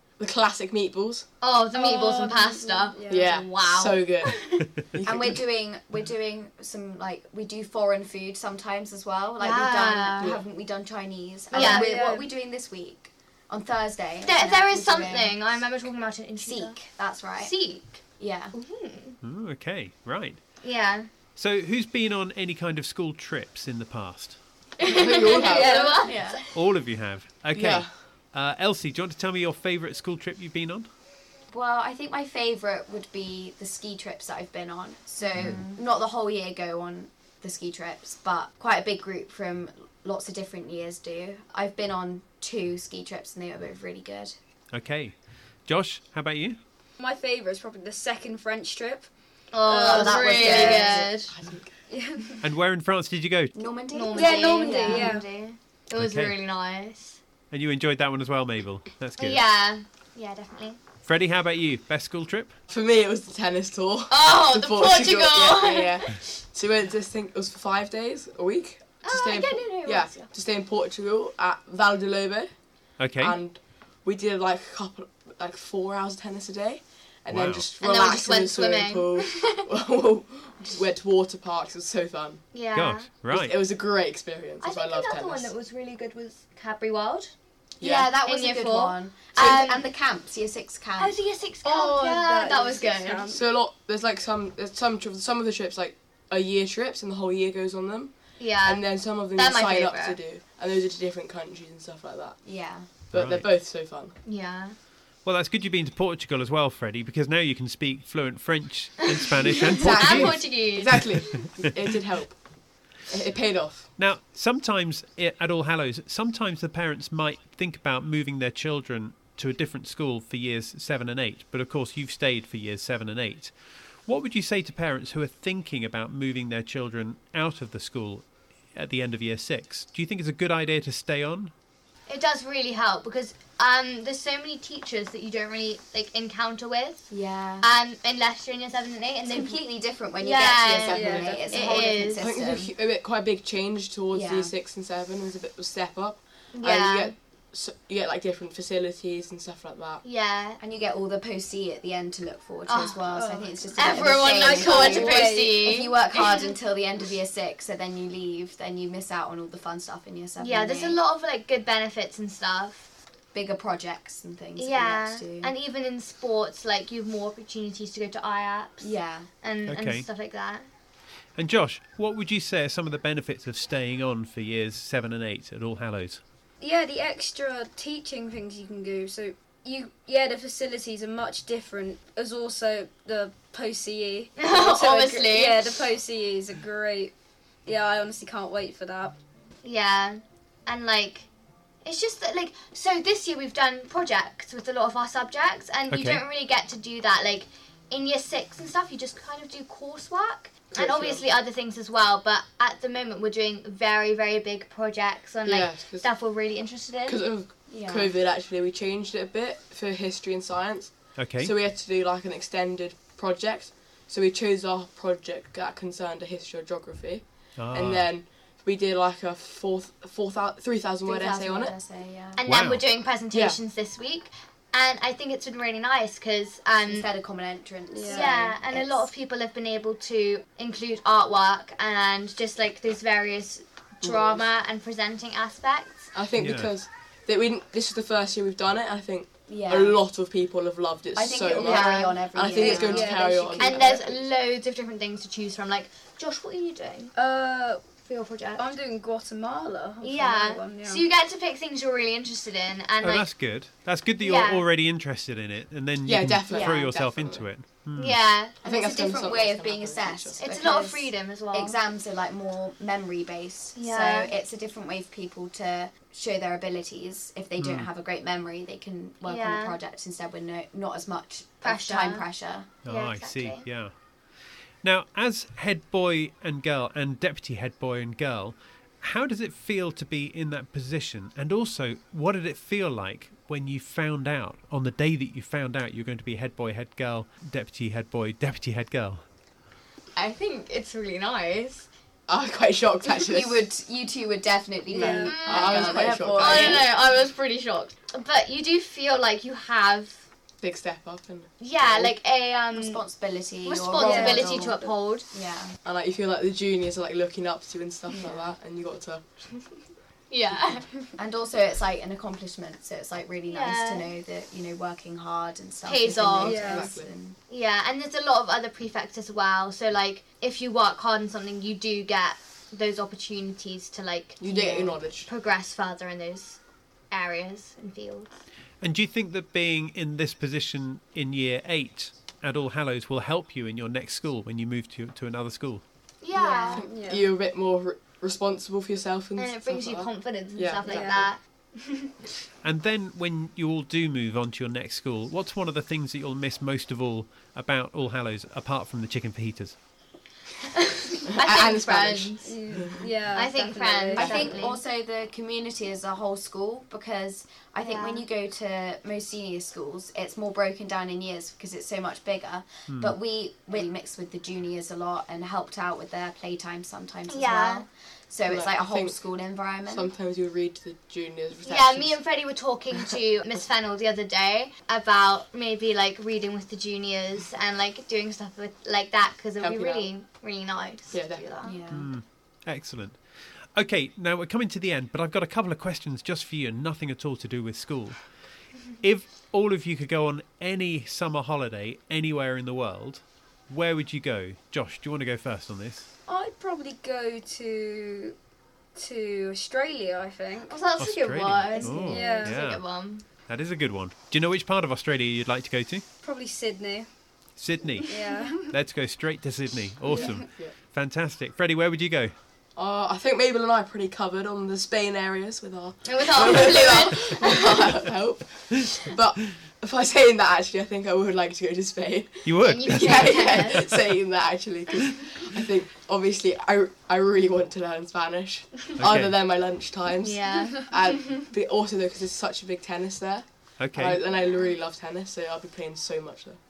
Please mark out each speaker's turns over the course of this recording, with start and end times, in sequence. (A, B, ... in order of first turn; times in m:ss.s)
0:00.2-0:01.3 A
0:01.4-0:04.6 B
0:01.7-0:03.4 C
0:03.1-0:04.4 A
0:04.9-0:05.4 A
0:05.0-0:15.6 D
0:09.4-0:10.4 B
0:11.5-0:12.2 C
0:11.5-0:11.9 B
0:14.2-0:16.8 B
0:16.4-0:17.6 D
0:17.4-0:19.2 B
0:18.2-0:18.5 D
0:19.2-0:20.4 E
0:20.6-0:21.1 B
0:21.4-0:24.4 E
0:24.8-0:26.4 B
0:24.8-0:26.0 A
0:25.4-0:26.1 C
0:26.0-0:26.4 D
0:26.5-0:30.9 E
0:27.5-0:27.9 A
0:31.5-0:44.4 D
0:35.2-0:35.8 B
0:35.3-0:35.6 E
0:44.7-0:46.6 E
0:47.0-0:49.1 C
0:49.5-0:51.3 B
0:49.7-0:51.0 C
0:49.7-0:51.3 D
0:51.3-0:51.8 A
0:51.9-0:52.4 C
0:52.4-0:53.5 E
0:53.5-0:55.5 D
0:53.9-0:57.2 B
0:54.1-0:55.2 C
0:56.0-0:56.3 E
0:57.5-0:59.4 E
0:59.2-1:00.8 B
1:01.0-1:02.5 E
1:02.7-1:12.5 A
1:04.1-1:06.3 B
1:09.0-1:10.3 B
1:13.0-1:13.4 E
1:13.2-1:22.4 A
1:17.3-1:17.7 E
1:17.8-1:19.7 B
1:22.5-1:23.3 B
1:22.7-1:23.5 E
1:23.3-1:25.5 A
1:24.6-1:27.3 B
1:27.8-1:28.2 A
1:27.8-1:31.2 D
1:28.1-1:29.8 B
1:31.0-1:33.3 B
1:31.6-1:33.4 C
1:33.3-1:42.4 A
1:38.4-1:40.2 B
1:42.4-1:42.9 D
1:43.1-1:44.1 A
1:43.1-1:43.4 E
1:44.2-1:44.7 B
1:45.2-1:50.4 E
1:49.4-1:51.0 B
1:49.8-1:52.4 A
1:53.1-1:53.9 A
1:54.0-2:03.5 E
2:04.0-2:11.5 E
2:12.1-2:17.1 B
2:17.1-2:17.6 D
2:17.6-2:19.6 B
2:19.2-2:22.7 D
2:20.2-2:22.3 B
2:20.8-2:21.8 C
2:20.9-2:21.3 A
2:22.2-2:30.0 A
2:24.1-2:24.5 D
2:26.5-2:27.1 B
2:30.0-2:30.6 B
2:30.6-2:41.0 D
2:32.7-2:33.0 B
2:33.1-2:33.5 C
2:33.7-2:36.4 B
2:34.6-2:35.6 C
2:40.4-2:42.9 B
2:43.3-2:45.5 D
2:44.6-2:48.9 B
2:48.8-2:49.3 D
2:49.4-2:50.6 B
2:49.6-2:50.0 E
2:51.4-2:56.2 E
2:56.6-3:07.1 C
3:04.4-3:05.6 B
3:07.6-3:09.2 C
3:09.6-3:11.3 B
3:11.8-3:27.2 B
3:15.9-3:16.2 E
3:20.7-3:21.2 A
3:25.4-3:26.1 A
3:27.0-3:41.7 A
3:27.7-3:28.1 D
3:31.2-3:31.5 E
3:37.6-3:38.1 E
3:41.0-3:42.4 D
3:42.4-3:47.0 B
3:42.4-3:42.8 E
3:43.3-3:43.6 A
3:46.8-3:49.1 D
3:47.9-3:48.3 C
3:48.1-3:56.1 B
3:54.0-3:54.5 A
3:56.1-4:04.2 A
3:56.4-3:56.7 E
3:59.5-4:00.0 D
4:01.1-4:03.8 D
4:01.6-4:02.3 B
4:02.5-4:03.7 C
4:03.6-4:07.1 B
4:07.1-4:07.8 C
4:08.0-4:08.7 B
4:08.5-4:11.0 C
4:10.0-4:13.3 B
4:13.0-4:18.2 E
4:14.2-4:14.6 B
4:16.0-4:17.5 A
4:16.5-4:16.9 D
4:17.9-4:18.6 B
4:18.6-4:32.7 D
4:18.6-4:20.4 A
4:20.4-4:21.7 B
4:23.8-4:24.3 B
4:27.6-4:27.9 E
4:29.2-4:29.7 B
4:31.6-4:32.2 B
4:32.8-4:33.9 E
4:32.8-4:33.7 B
4:34.8-4:49.2 E
4:50.2-4:51.9 B
4:52.3-4:53.7 A
4:53.0-4:56.8 D
4:54.9-4:56.9 A
4:54.9-4:55.4 C
4:55.2-5:00.2 B
5:00.6-5:02.1 A
5:01.6-5:03.0 B
5:02.7-5:04.8 D
5:03.6-5:05.2 B
5:04.0-5:04.9 C
5:05.3-5:05.7 D
5:05.8-5:09.2 A
5:08.1-5:08.4 D
5:10.3-5:10.9 B
5:11.2-5:17.4 D
5:13.4-5:14.1 B
5:15.8-5:16.7 B
5:16.4-5:17.1 A
5:16.4-5:16.9 C
5:17.5-5:28.3 B
5:24.4-5:25.3 A
5:28.8-5:35.8 E
5:36.2-5:36.8 B
5:36.3-5:36.8 D
5:36.7-5:41.3 A
5:36.8-5:37.3 C
5:39.4-5:42.1 B
5:40.8-5:41.2 C
5:42.6-5:49.8 E
5:50.7-5:52.5 B
5:51.3-5:52.9 A
5:52.4-5:54.6 C
5:53.3-5:54.8 B
5:54.2-6:10.1 D
5:57.8-5:58.2 B
6:02.9-6:03.2 E
6:07.3-6:07.8 B
6:08.5-6:09.2 A
6:09.9-6:12.2 A
6:11.6-6:21.8 B
6:19.6-6:20.1 A
6:21.1-6:21.6 A
6:21.6-6:22.1 D
6:21.9-6:23.2 E
6:23.7-6:28.2 E
6:29.0-6:36.1 E
6:36.3-6:38.4 C
6:39.0-6:40.8 C
6:40.7-6:43.2 B
6:41.0-6:42.8 E
6:41.9-6:42.6 C
6:43.5-6:46.0 E
6:46.2-6:47.1 C
6:47.6-6:52.3 E
6:48.0-6:48.6 C
6:50.1-6:50.7 A
6:50.1-6:50.4 C
6:52.8-7:16.6 A
6:56.0-6:57.8 B
7:02.4-7:03.9 E
7:02.6-7:03.9 B
7:09.0-7:09.4 E
7:10.2-7:10.8 B
7:13.8-7:14.2 E